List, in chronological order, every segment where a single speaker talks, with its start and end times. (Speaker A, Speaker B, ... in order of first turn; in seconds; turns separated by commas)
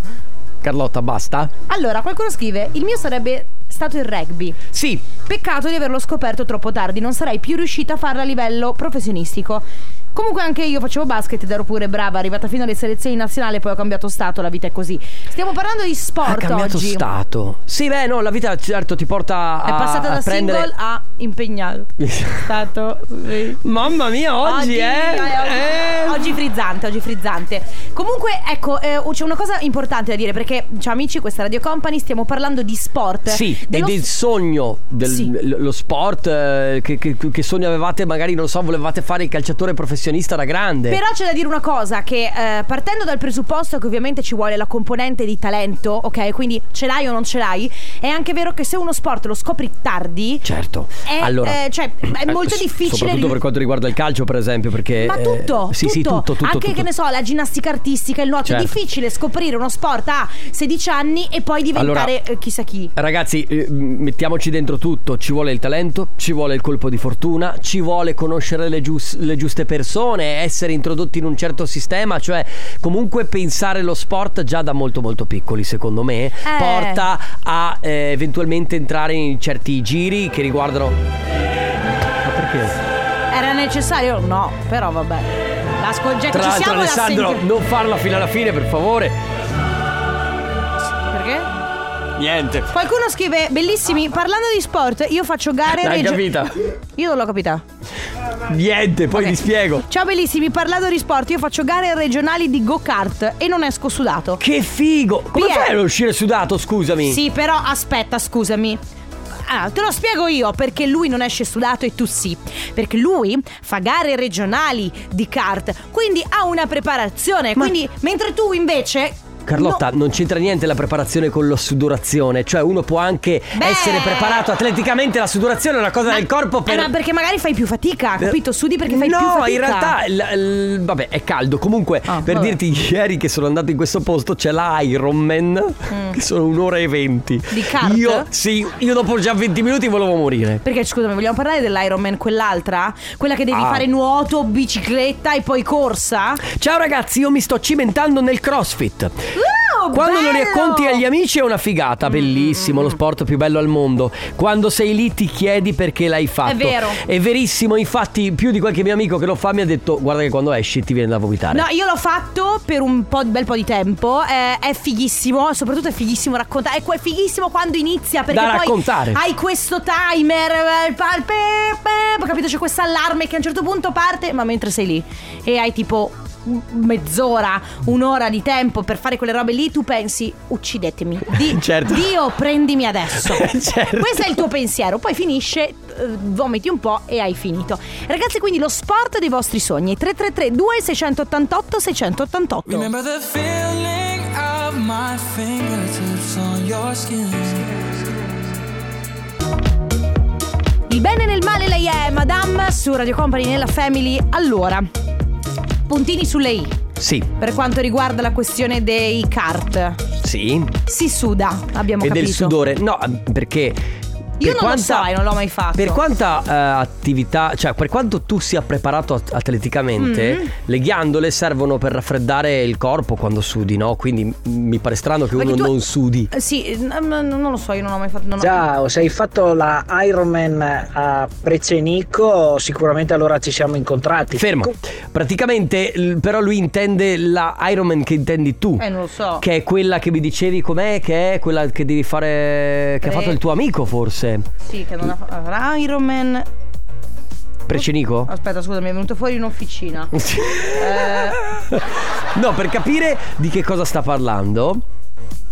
Speaker A: 0.6-1.5, Speaker B: 1.7-4.6, Speaker A: 4.7-5.0, Speaker B: 5.2-17.1, Speaker A: 16.2-20.7, Speaker B: 19.6-23.6, Speaker A: 22.0-22.4, Speaker A: 23.6-26.4, Speaker B: 24.4-34.1, Speaker A: 33.3-41.0, Speaker B: 35.0-35.3, Speaker B: 40.9-50.5, Speaker A: 50.4-56.9, Speaker B: 51.0-53.4, Speaker B: 55.0-62.9, Speaker A: 58.4-58.7, Speaker A: 61.7-62.1, Speaker A: 63.0-81.0, Speaker B: 76.4-77.0, Speaker A: 82.2-82.8, Speaker B: 83.3-87.4, Speaker A: 86.3-89.2, Speaker B: 91.1-91.5, Speaker A: 92.2-92.7, Speaker B: 92.7-96.2, Speaker A: 95.7-96.8, Speaker B: 97.0-97.6, Speaker A: 98.3-99.8, Speaker B: 99.1-104.4, Speaker A: 104.4-107.2, Speaker B: 105.3-105.7, Speaker B: 107.0-108.8, Speaker B: 109.5-119.8, Speaker A: 119.5-126.9, Speaker B: 123.5-124.5, Speaker B: 126.1-129.9, Speaker A: 128.2-140.6, Speaker B: 132.1-132.6, Speaker B: 135.9-136.2, Speaker B: 137.5-138.3, Speaker B: 140.6-146.4, Speaker A: 143.5-143.8, Speaker A: 146.4-149.3, Speaker B: 149.3-151.0, Speaker A: 149.9-161.6, Speaker B: 152.1-153.0, Speaker B: 156.4-157.0, Speaker B: 161.5-192.9, Speaker A: 168.3-169.2, Speaker A: 181.3-182.1, Speaker A: 183.2-184.4, Speaker C: 192.7-198.3, Speaker B: 200.9-204.8, Speaker B: 205.9-206.8, Speaker A: 207.0-207.3, Speaker B: 207.3-210.0, Speaker A: 210.2-210.8, Speaker B: 210.9-212.6, Speaker A: 212.0-213.8, Speaker A: 214.4-215.1, Speaker B: 214.4-216.0, Speaker A: 215.8-226.3, Speaker B: 220.0-220.5, Speaker B: 225.3-225.8, Speaker B: 226.3-228.7, Speaker D: 228.4-234.6, Speaker A: 234.3-238.8, Speaker B: 238.8-239.4, Speaker A: 239.4-244.4, Speaker B: 243.0-243.4, Speaker B: 244.6-246.4, Speaker A: 247.7-248.3, Speaker B: 247.7-251.4, Speaker A: 250.1-254.8